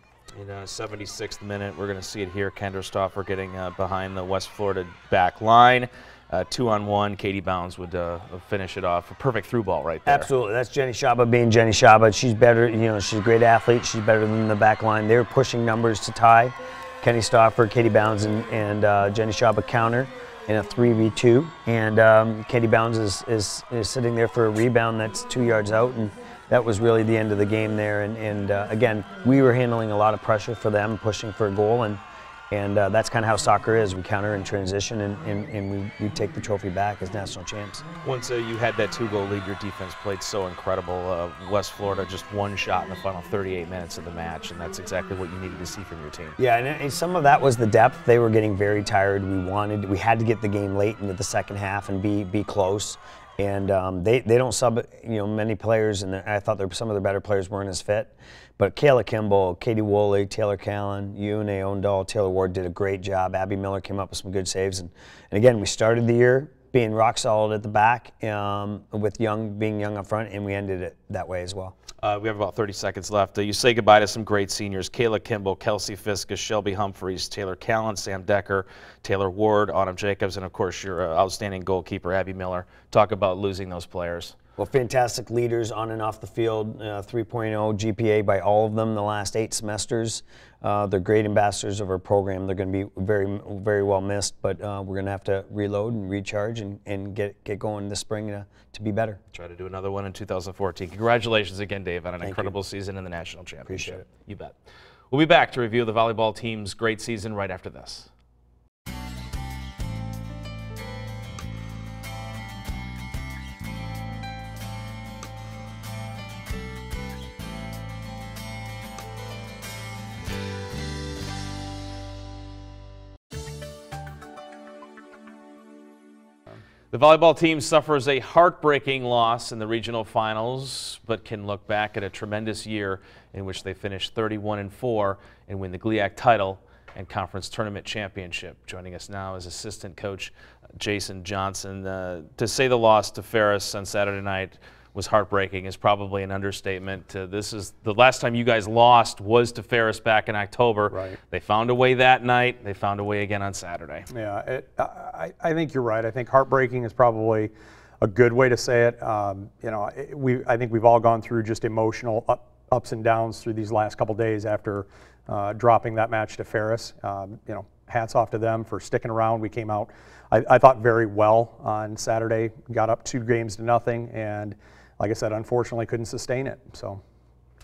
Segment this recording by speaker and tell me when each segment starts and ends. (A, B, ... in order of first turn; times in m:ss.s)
0:00.4-0:10.3 A
0:10.1-0:37.8 B
0:38.0-0:46.4 A
0:46.4-1:11.8 B
1:12.0-1:24.4 A
1:24.6-1:39.2 B
1:39.3-1:44.6 A
1:42.2-1:42.5 B
1:43.7-1:44.0 B
1:45.1-1:48.1 A
2:06.9-2:34.1 A
2:30.9-2:31.2 C
2:34.1-2:57.0 C